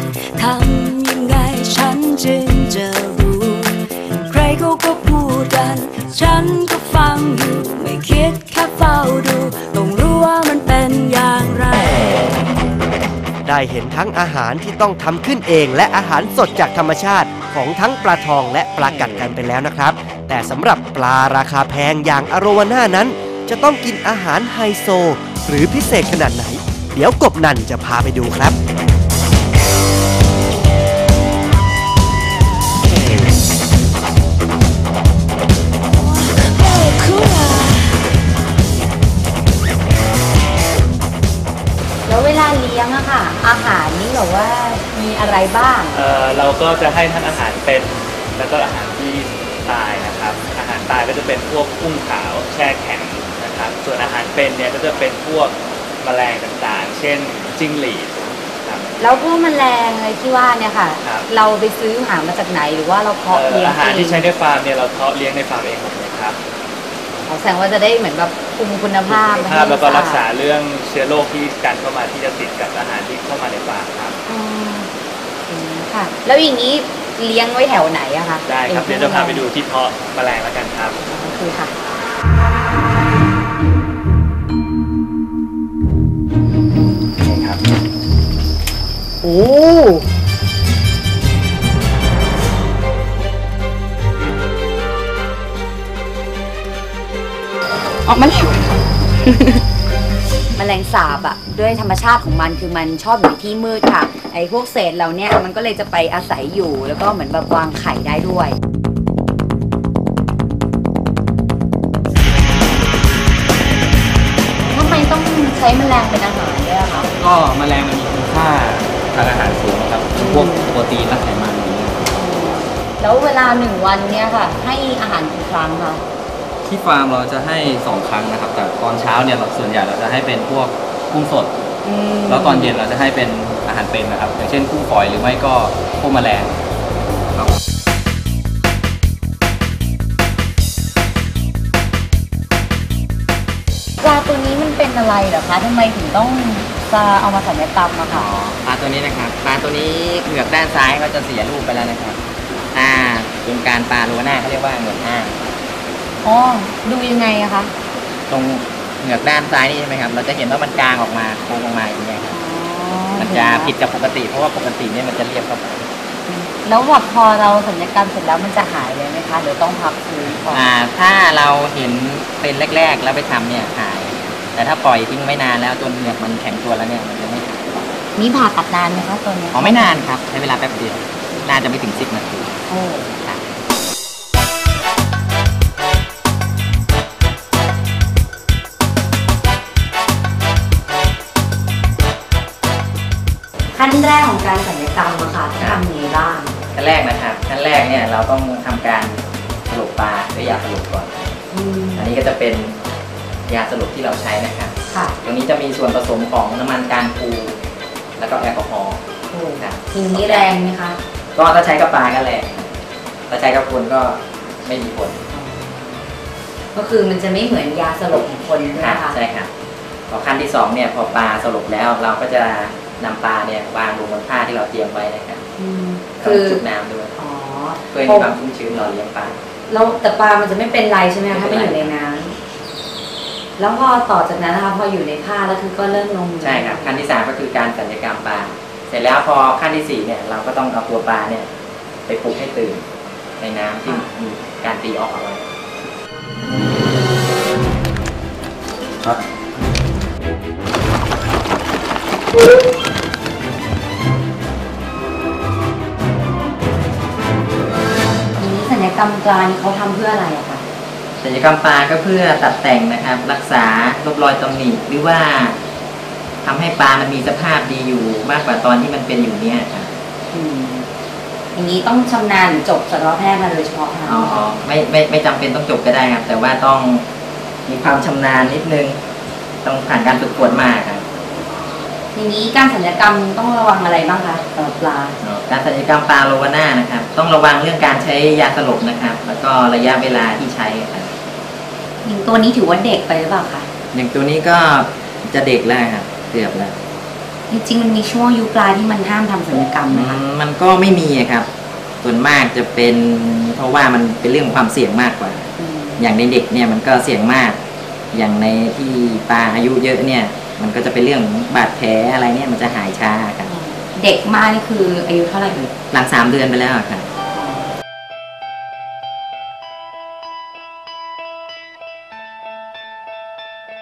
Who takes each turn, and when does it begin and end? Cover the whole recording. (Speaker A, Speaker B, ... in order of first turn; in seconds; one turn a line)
Speaker A: 0.4-3.7
Speaker A: 4.3-12.3
Speaker B: 13.4-28.6
Speaker A: 36.0-38.0
Speaker C: 42.0-46.0
Speaker D: 45.9-59.0
Speaker C: 59.0-64.3
Speaker D: 61.0-61.3
Speaker D: 63.3-66.4
Speaker C: 67.2-70.2
Speaker D: 69.0-74.2
Speaker C: 74.3-74.9
Speaker C: 75.5-79.5
Speaker D: 78.4-81.0
Speaker C: 81.0-81.7
Speaker D: 87.2-87.6
Speaker C: 89.2-90.0
Speaker C: 98.1-98.5
Speaker C: 100.5-108.6
Speaker C: 114.7-117.1
Speaker E: 117.2-122.0
Speaker C: 120.1-120.7
Speaker C: 122.2-126.0
Speaker E: 126.6-131.6
Speaker C: 131.8-132.7
Speaker E: 132.3-136.6
Speaker C: 144.0-148.3
Speaker F: 148.1-152.2
Speaker F: 152.7-155.4
Speaker C: 156.2-157.7
Speaker F: 158.3-162.4
Speaker C: 162.3-163.7
Speaker F: 163.2-165.9
Speaker C: 166.3-170.6
Speaker F: 170.5-177.7
Speaker C: 178.1-180.1
Speaker F: 179.5-182.6
Speaker C: 182.7-183.2
Speaker F: 183.2-183.5
Speaker C: 193.7-196.6
Speaker F: 196.7-201.4
Speaker C: 201.5-202.1
Speaker F: 201.9-202.8
Speaker F: 203.5-207.6
Speaker F: 208.2-209.0
Speaker C: 209.3-211.0
Speaker F: 209.6-210.5
Speaker F: 211.3-212.7
Speaker F: 213.3-215.2
Speaker C: 215.3-216.1
Speaker C: 216.7-219.2
Speaker F: 218.1-219.5
Speaker F: 220.1-225.4
Speaker C: 225.6-226.6
Speaker F: 226.2-227.1
Speaker C: 227.2-228.3
Speaker F: 227.9-229.4
Speaker C: 229.7-232.3
Speaker F: 231.3-231.9
Speaker C: 233.6-236.9
Speaker F: 236.4-241.5
Speaker F: 242.1-242.8
Speaker F: 243.4-245.5
Speaker C: 258.4-260.6
Speaker F: 261.2-265.6
Speaker F: 266.4-269.9
Speaker C: 270.3-270.9
Speaker C: 271.5-274.4
Speaker F: 274.1-277.1
Speaker F: 277.6-279.0
Speaker F: 279.6-281.0
Speaker C: 282.1-285.1
Speaker F: 285.2-291.1
Speaker C: 292.0-293.7
Speaker F: 293.9-296.7
Speaker C: 297.5-300.2
Speaker F: 299.9-301.5
Speaker F: 302.0-307.6
Speaker C: 305.6-306.0
Speaker F: 308.1-313.5
Speaker C: 313.4-315.7
Speaker F: 315.9-317.1
Speaker C: 317.3-317.7